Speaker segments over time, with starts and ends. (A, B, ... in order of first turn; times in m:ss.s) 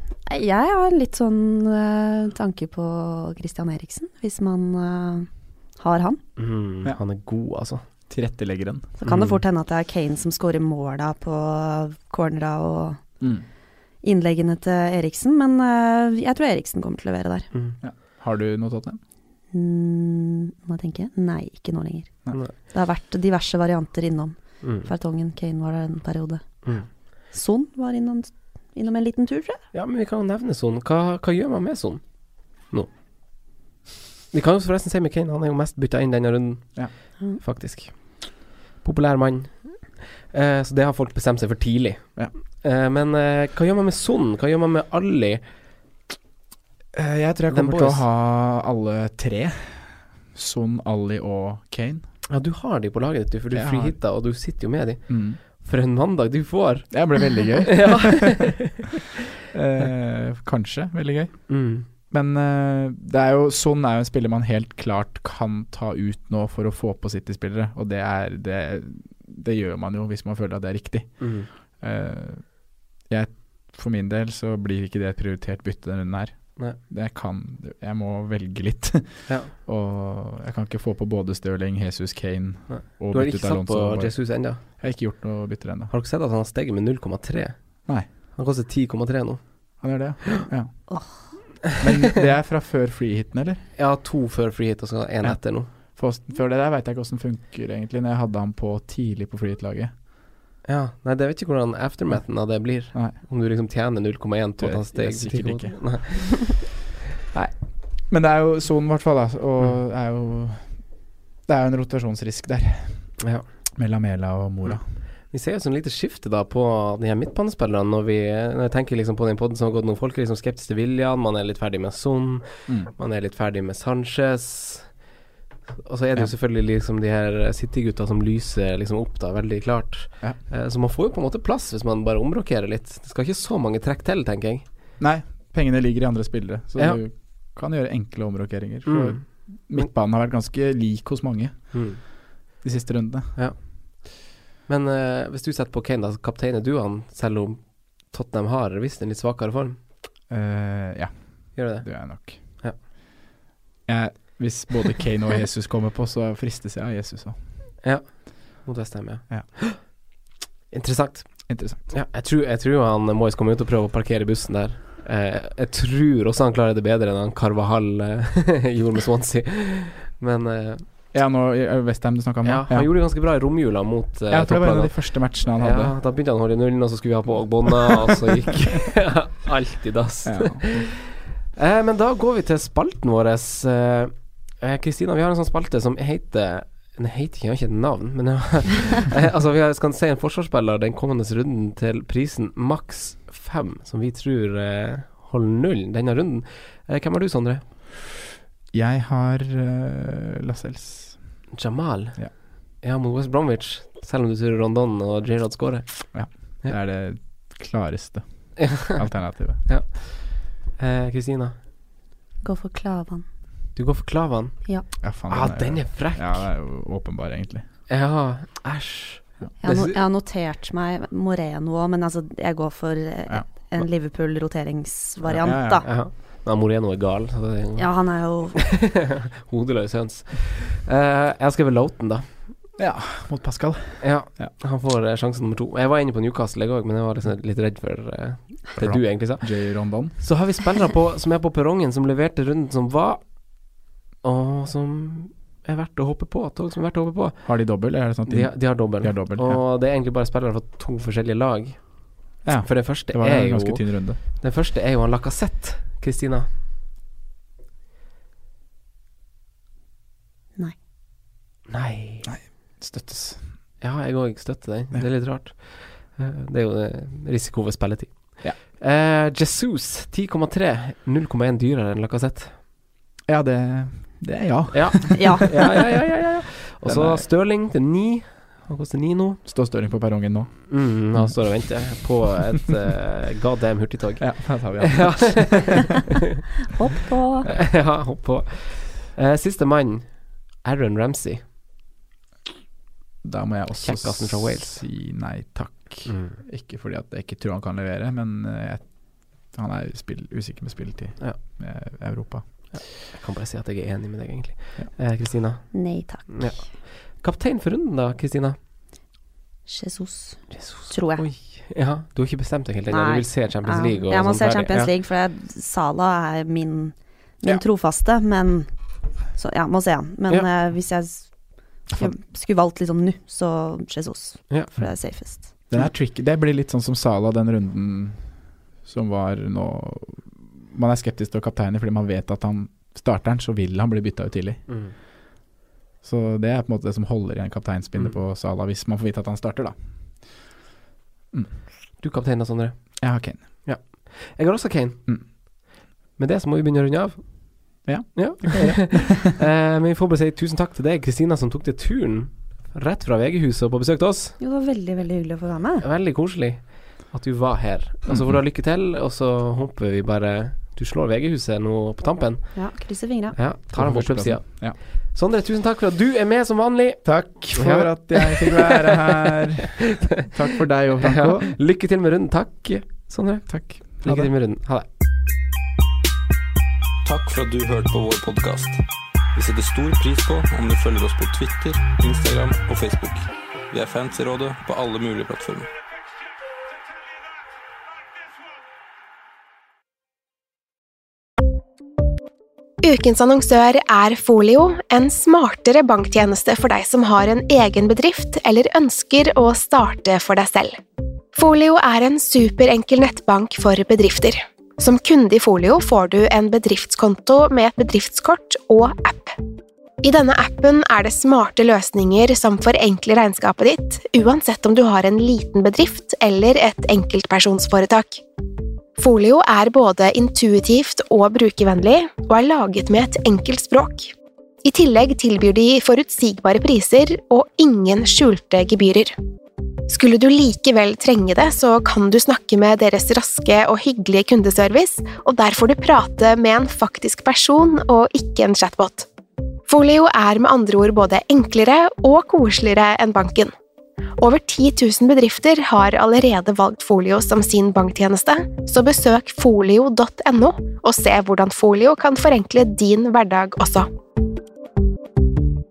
0:00.3-0:06.2 A
0:06.4-0:07.8 B
0:08.1-0:08.9 C
0:09.0-0:13.2 A
0:09.0-0:09.4 B
0:13.2-0:13.5 C
0:14.0-0:17.5 A
0:17.5-0:17.8 B
0:17.8-0:19.0 C
0:19.5-0:29.6 A
0:24.6-0:24.9 B
0:26.6-0:26.9 B
0:29.7-0:33.5 B
0:34.3-0:45.6 B
0:46.9-0:52.1 C
0:47.5-0:48.0 B
0:52.3-0:58.7 B
0:53.5-0:54.0 C
0:55.1-0:55.4 C
0:56.9-0:58.7 C
0:59.5-1:25.9 C
1:01.5-1:01.9 B
1:11.2-1:11.5 B
1:19.3-1:19.5 B
1:22.7-1:24.6 B
1:25.9-1:30.5 B
1:29.8-1:33.7 C
1:30.9-1:31.2 A
1:33.8-1:35.7 B
1:35.2-1:40.0 C
1:40.6-1:46.6 B
1:42.1-1:43.2 C
1:44.6-1:46.6 C
1:47.3-1:53.2 C
1:53.2-1:53.5 B
1:53.8-1:54.9 C
1:54.6-2:05.1 B
2:02.7-2:02.9 C
2:05.8-2:14.7 B
2:15.0-2:23.4 C
2:18.9-2:19.9 B
2:21.7-2:22.0 B
2:23.4-2:29.8 B
2:30.3-2:32.6 C
2:31.6-2:32.8 B
2:33.9-2:37.4 C
2:37.8-2:39.8 B
2:40.7-2:50.8 B
2:41.5-2:41.9 C
2:51.1-2:52.9 C
2:52.4-3:01.0 B
2:54.3-2:56.0 C
3:00.2-3:00.9 C
3:01.6-3:17.7 B
3:18.7-3:21.5 C
3:21.5-3:26.8 B
3:26.1-3:29.7 C
3:28.6-3:29.0 B
3:29.6-3:31.6 B
3:32.4-3:33.3 A
3:33.8-3:36.5 B
3:35.0-3:37.7 C
3:37.9-3:40.0 B
3:39.6-3:45.9 A
3:43.3-3:43.9 C
3:45.2-3:45.9 C
3:45.8-3:52.6 B
3:47.8-3:48.6 A
3:52.8-3:54.5 C
3:54.0-4:16.5 B
3:58.8-4:00.3 C
4:07.4-4:09.6 C
4:12.4-4:14.2 C
4:21.7-4:22.4 B
4:22.2-4:23.6 C
4:23.8-4:32.6 B
4:33.3-4:36.3 C
4:34.7-4:39.4 B
4:35.2-4:35.4 A
4:36.8-4:37.3 C
4:39.4-4:42.1 C
4:40.7-4:45.9 B
4:44.2-4:45.7 C
4:46.8-4:47.5 A
4:47.5-4:51.5 B
4:53.2-5:02.8 C
4:53.8-4:54.8 B
4:56.1-4:56.4 B
5:02.7-5:08.6 B
5:05.7-5:06.7 A
5:09.7-5:11.2 A
5:10.5-5:14.9 B
5:12.9-5:25.5 A
5:21.9-5:22.2 C
5:24.8-5:34.8 C
5:34.7-5:35.0 B
5:36.0-5:40.4 C
5:41.3-5:41.6 C
5:42.0-5:45.6 B
5:43.0-5:43.6 C
5:46.2-5:54.4 B
5:47.8-5:49.0 C
5:54.4-5:55.8 A
5:55.8-6:09.4 B
5:58.1-5:58.4 C
6:02.6-6:03.4 A
6:03.7-6:04.8 C
6:07.0-6:11.6 C
6:11.0-6:14.9 B
6:13.5-6:14.3 C
6:17.0-6:18.8 D
6:19.3-6:25.7 D
6:32.8-6:40.8 E
6:41.3-6:49.3 E
6:50.0-6:58.2 E
6:59.0-7:04.1 E
7:04.6-7:09.2 E
7:09.9-7:19.1 E
7:19.7-7:23.5 E
7:24.2-7:33.9 E